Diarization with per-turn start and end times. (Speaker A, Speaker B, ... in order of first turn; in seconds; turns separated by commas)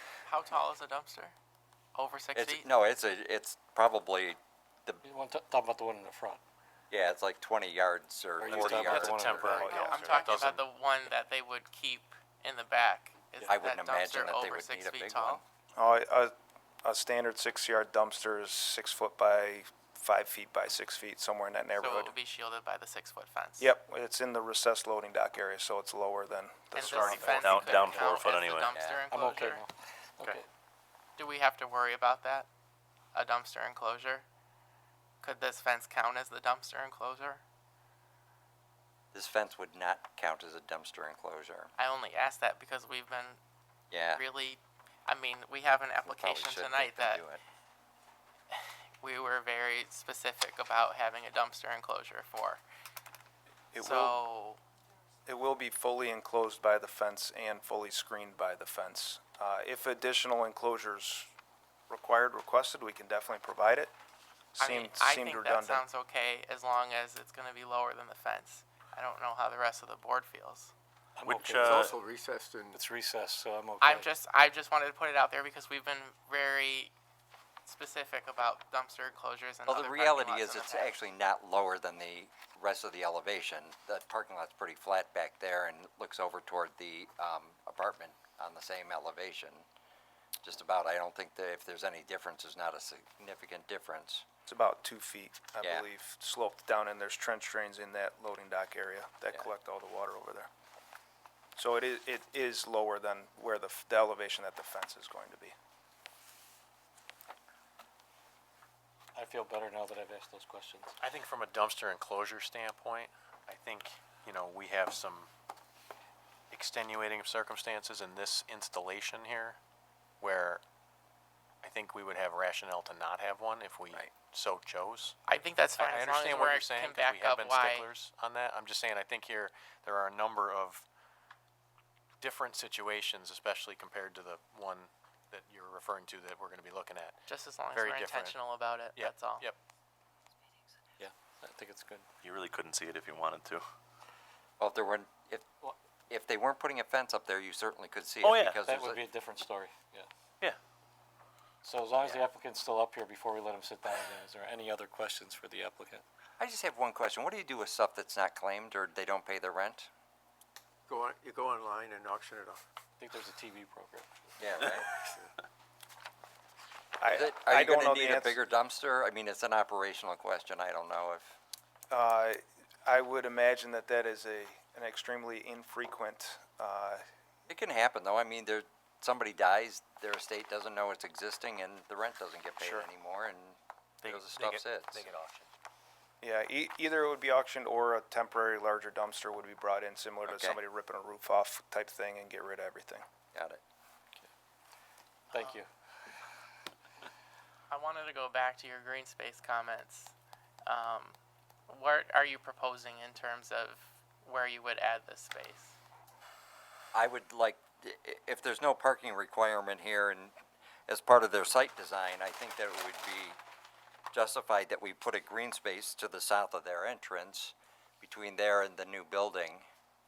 Speaker A: 0.2-1.4, Speaker A: 1.9-2.7, Speaker B: 2.4-5.0, Speaker C: 5.0-6.4, Speaker B: 6.9-9.2, Speaker C: 8.4-9.8, Speaker D: 8.5-10.6, Speaker E: 8.9-10.4, Speaker A: 9.5-15.4, Speaker B: 13.5-15.4, Speaker E: 15.8-22.1, Speaker A: 21.8-23.7, Speaker E: 23.6-27.9, Speaker A: 26.7-29.6, Speaker F: 26.9-28.7, Speaker C: 27.8-28.1, Speaker B: 28.7-29.0, Speaker C: 29.1-30.4, Speaker A: 31.2-32.5, Speaker A: 33.1-34.2, Speaker A: 35.2-37.4, Speaker B: 39.1-41.7, Speaker A: 41.8-43.4, Speaker B: 43.9-44.2, Speaker A: 44.1-47.2, Speaker B: 46.0-47.4, Speaker A: 48.5-52.6, Speaker E: 53.7-54.2, Speaker A: 53.8-54.6, Speaker E: 55.2-61.3, Speaker E: 61.9-63.9, Speaker E: 64.6-65.8, Speaker A: 64.6-70.7, Speaker C: 71.2-72.0, Speaker F: 71.3-71.8, Speaker G: 71.5-72.8, Speaker C: 72.7-74.1, Speaker A: 73.8-76.9, Speaker A: 77.6-80.9, Speaker B: 79.7-89.7, Speaker B: 90.4-94.2, Speaker E: 94.5-100.5, Speaker B: 95.6-95.9, Speaker E: 101.6-105.5, Speaker C: 109.2-110.9, Speaker D: 111.0-115.3, Speaker D: 116.5-119.6, Speaker D: 120.2-120.6, Speaker D: 121.6-125.2, Speaker A: 125.3-127.9, Speaker D: 125.8-130.8, Speaker D: 132.2-138.4, Speaker A: 137.3-139.4, Speaker D: 138.9-139.6, Speaker C: 141.0-142.1, Speaker F: 142.2-143.6, Speaker B: 144.6-145.4, Speaker B: 146.1-149.0, Speaker F: 148.2-148.6, Speaker C: 148.6-150.1, Speaker C: 151.6-156.0, Speaker B: 156.4-159.9, Speaker G: 160.9-162.6, Speaker C: 163.0-165.1, Speaker B: 164.4-164.9, Speaker E: 167.0-168.4, Speaker B: 167.1-171.4, Speaker E: 171.9-177.0, Speaker B: 177.5-185.0, Speaker E: 182.6-182.9, Speaker D: 184.0-185.5, Speaker E: 186.2-193.0, Speaker B: 190.2-190.6, Speaker B: 193.3-193.6, Speaker C: 195.3-195.7, Speaker A: 197.7-201.2, Speaker A: 201.7-205.8, Speaker B: 206.9-210.3, Speaker B: 210.9-213.4, Speaker B: 214.1-219.7